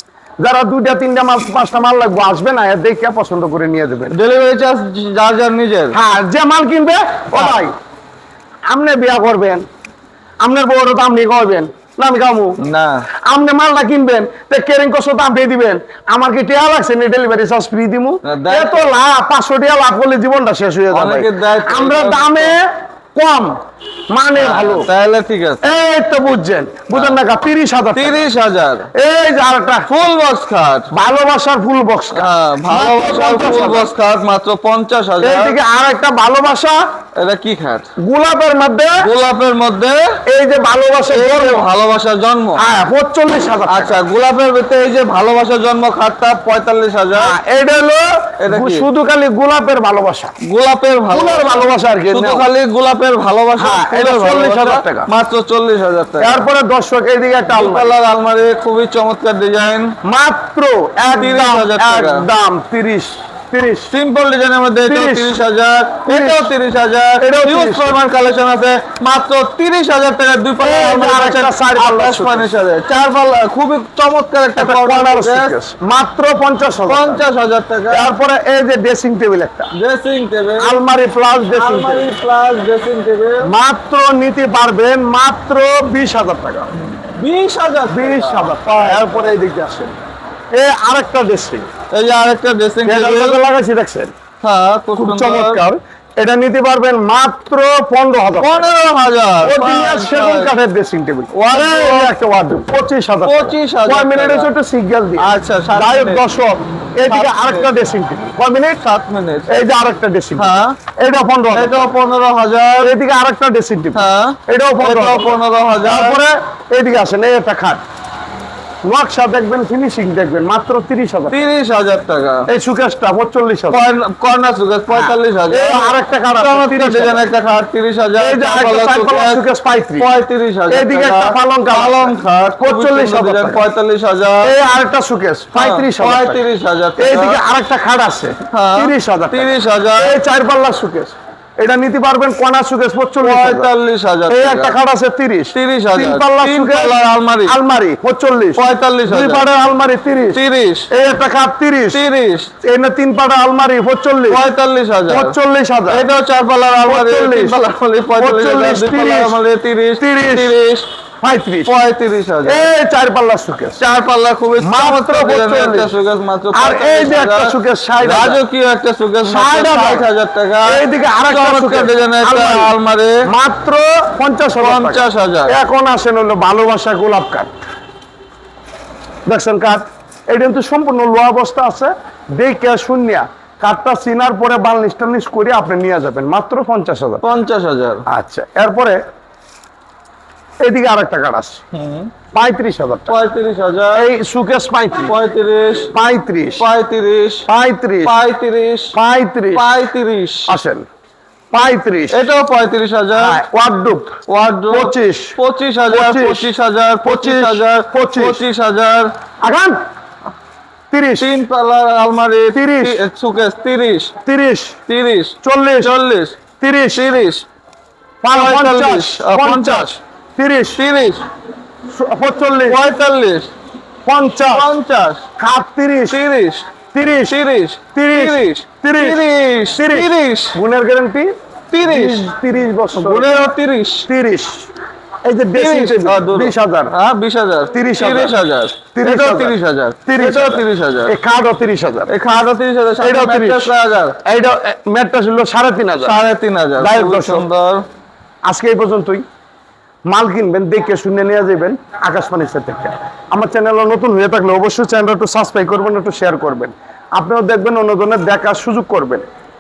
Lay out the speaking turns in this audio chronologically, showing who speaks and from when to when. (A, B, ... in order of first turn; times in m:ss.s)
0:00.4-0:04.2 A
0:04.1-0:06.0 B
0:05.9-0:07.7 A
0:08.7-0:09.6 A
0:10.4-0:12.6 A
0:12.6-0:13.1 B
0:13.3-0:22.6 A
0:18.2-0:18.9 B
0:20.9-0:22.6 B
0:23.2-0:23.5 A
0:24.1-0:24.9 A
0:24.4-0:25.6 B
0:25.6-0:28.2 A
0:26.9-0:27.2 B
0:28.0-0:28.9 B
0:29.0-0:29.9 A
0:29.9-0:30.9 B
0:30.9-0:33.9 A
0:32.2-0:35.6 B
0:35.2-0:36.8 A
0:37.2-0:37.9 B
0:38.0-0:39.0 A
0:39.0-0:40.0 B
0:40.3-0:41.7 A
0:41.1-0:42.6 B
0:42.6-0:44.0 A
0:43.7-0:47.4 B
0:47.2-0:50.3 A
0:48.4-0:48.9 B
0:50.4-0:56.4 B
0:51.1-0:52.5 A
0:53.6-0:55.1 A
0:56.2-0:57.9 A
0:57.5-0:59.9 B
1:00.0-1:03.9 A
1:01.1-1:02.3 B
1:03.9-1:15.6 B
1:04.9-1:05.4 A
1:06.1-1:06.5 A
1:07.2-1:07.9 A
1:10.6-1:12.5 A
1:14.6-1:17.2 A
1:16.9-1:18.1 B
1:17.9-1:19.7 A
1:19.8-1:20.8 B
1:20.6-1:22.1 A
1:21.5-1:23.5 B
1:23.4-1:26.7 A
1:27.2-1:29.3 B
1:27.9-1:29.9 A
1:30.5-1:31.7 A
1:31.9-1:33.4 B
1:32.8-1:34.1 A
1:34.4-1:35.6 B
1:35.0-1:38.7 A
1:38.4-1:40.5 B
1:39.4-1:48.8 A
1:41.3-1:42.2 B
1:43.2-1:44.5 B
1:45.2-1:46.2 B
1:47.1-1:47.7 B
1:48.8-1:49.6 B
1:49.5-1:51.9 A
1:50.4-1:50.8 B
1:51.5-1:52.9 B
1:52.8-1:57.8 A
1:53.9-1:56.2 B
1:58.9-2:01.4 A
2:01.3-2:02.5 B
2:02.5-2:03.8 A
2:03.7-2:09.4 B
2:04.9-2:07.2 A
2:08.2-2:10.1 A
2:10.0-2:14.5 B
2:10.7-2:13.6 A
2:14.4-2:16.4 A
2:15.6-2:17.4 B
2:17.0-2:23.7 A
2:18.5-2:20.2 B
2:23.2-2:24.8 B
2:24.3-2:32.0 A
2:25.5-2:27.6 B
2:28.6-2:29.4 B
2:30.3-2:30.9 B
2:31.9-2:32.5 B
2:32.6-2:34.4 A
2:34.3-2:35.3 B
2:35.1-2:36.1 A
2:35.9-2:40.9 B
2:36.8-2:37.6 A
2:38.2-2:39.4 A
2:40.0-2:40.6 A
2:41.2-2:41.7 A
2:41.7-2:42.7 B
2:42.5-2:43.8 A
2:43.8-2:53.2 B
2:44.6-2:45.9 A
2:46.5-2:48.4 A
2:49.2-2:50.1 A
2:50.7-2:52.7 A
2:53.3-2:57.5 A
2:54.6-2:55.6 B
2:59.3-3:07.2 A
3:07.2-3:08.0 B
3:08.1-3:09.0 A
3:10.6-3:11.6 A
3:11.7-3:12.1 B
3:12.3-3:13.2 A
3:13.1-3:14.1 B
3:14.0-3:15.1 A
3:15.1-3:15.9 B
3:15.9-3:16.7 A
3:16.6-3:17.5 B
3:17.5-3:18.2 A
3:18.0-3:18.9 B
3:18.9-3:19.7 A
3:19.5-3:20.5 B
3:20.5-3:20.8 A
3:21.5-3:22.2 A
3:22.1-3:23.4 B
3:23.1-3:24.2 A
3:24.3-3:29.1 B
3:24.7-3:25.4 A
3:25.9-3:26.5 A
3:27.0-3:28.4 A
3:29.4-3:29.8 A
3:30.9-3:31.3 A
3:31.2-3:34.1 B
3:32.5-3:33.0 A
3:34.3-3:34.8 A
3:34.9-3:36.4 B
3:35.4-3:35.9 A
3:36.6-3:37.1 A
3:36.9-3:37.5 B
3:38.2-3:40.8 A
3:38.3-3:40.0 B
3:40.8-3:41.2 B
3:41.9-3:42.8 A
3:42.7-3:43.5 B
3:44.1-3:44.7 A
3:44.5-3:45.2 B
3:45.4-3:46.2 A
3:46.1-3:46.7 B
3:46.9-3:47.4 A
3:47.3-3:50.6 B
3:48.0-3:49.2 A
3:49.8-3:51.3 A
3:51.7-3:52.2 B
3:51.8-3:53.5 A
3:53.0-3:54.1 B
3:54.1-3:54.7 A
3:55.2-3:56.9 A
3:55.5-4:01.2 B
3:57.7-3:58.3 A
3:59.0-3:59.6 A
4:00.1-4:02.1 A
4:02.1-4:04.2 B
4:03.0-4:03.7 A
4:04.2-4:06.2 A
4:06.0-4:07.8 B
4:06.8-4:07.5 A
4:08.5-4:09.2 A
4:10.1-4:19.2 A